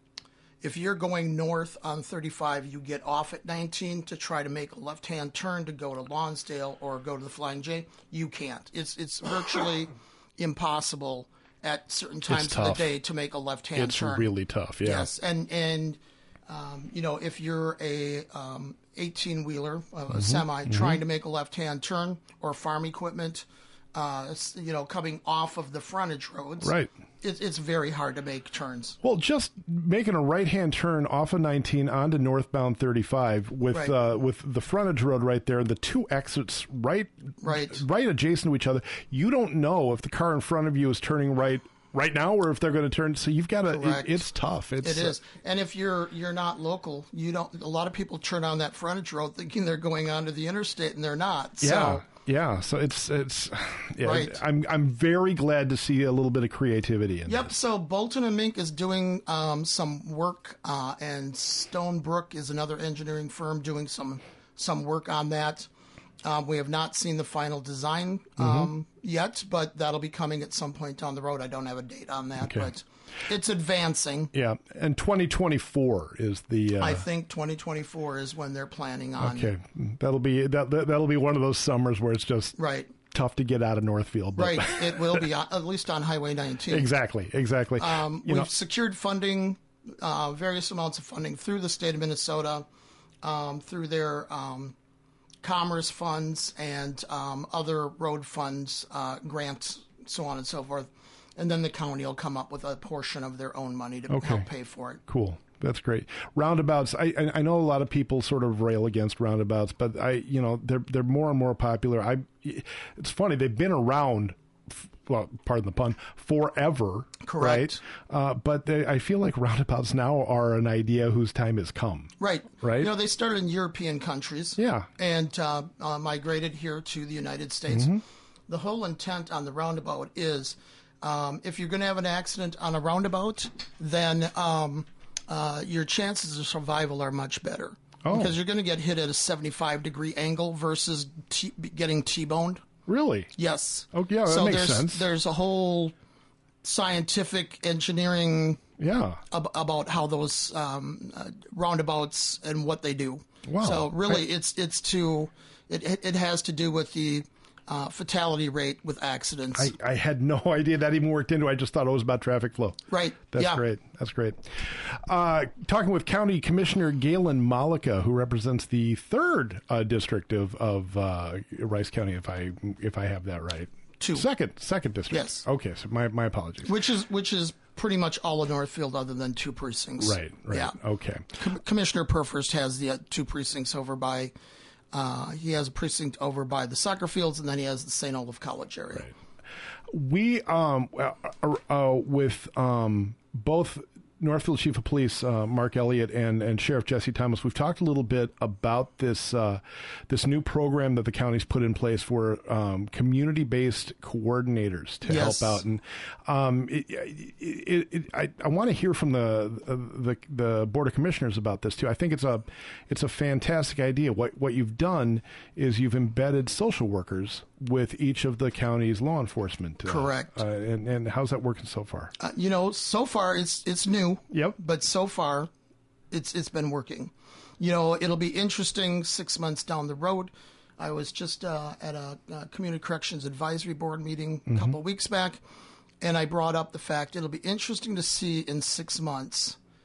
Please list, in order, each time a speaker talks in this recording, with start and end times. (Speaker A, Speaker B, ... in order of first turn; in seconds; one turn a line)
Speaker A: 0.6-29.0
Speaker B: 12.3-12.9
Speaker B: 13.8-15.1
Speaker B: 20.1-21.0
Speaker B: 26.6-26.9
Speaker B: 29.0-45.1
Speaker A: 37.4-37.8
Speaker A: 43.7-44.2
Speaker A: 44.8-52.0
Speaker B: 51.6-57.5
Speaker A: 54.0-54.4
Speaker A: 57.2-65.7
Speaker A: 66.2-74.3
Speaker B: 68.4-68.7
Speaker B: 72.4-72.7
Speaker B: 74.3-77.0
Speaker A: 76.8-79.5
Speaker B: 79.2-82.5
Speaker A: 82.5-82.9
Speaker B: 83.1-85.2
Speaker A: 84.4-86.9
Speaker B: 86.7-88.5
Speaker A: 87.8-92.7
Speaker A: 93.2-94.8
Speaker A: 95.4-105.0
Speaker B: 104.1-104.5
Speaker B: 105.1-122.9
Speaker A: 117.2-117.8
Speaker A: 122.2-142.6
Speaker B: 124.6-124.9
Speaker B: 127.7-128.0
Speaker B: 138.0-138.3
Speaker B: 142.9-143.3
Speaker A: 143.3-145.9
Speaker B: 143.9-145.1
Speaker A: 146.6-148.6
Speaker B: 148.8-149.2
Speaker A: 149.3-159.7
Speaker B: 153.4-154.2
Speaker B: 159.6-176.7
Speaker A: 162.9-163.6
Speaker A: 174.0-174.2
Speaker A: 175.1-175.4
Speaker A: 176.6-180.8
Speaker B: 180.0-181.3
Speaker A: 181.3-184.3
Speaker A: 184.9-189.1
Speaker B: 189.9-222.1
Speaker A: 205.1-205.6
Speaker A: 219.8-220.4
Speaker A: 222.2-225.5
Speaker B: 224.3-224.6
Speaker A: 226.1-235.4
Speaker B: 234.5-234.7
Speaker A: 236.0-239.6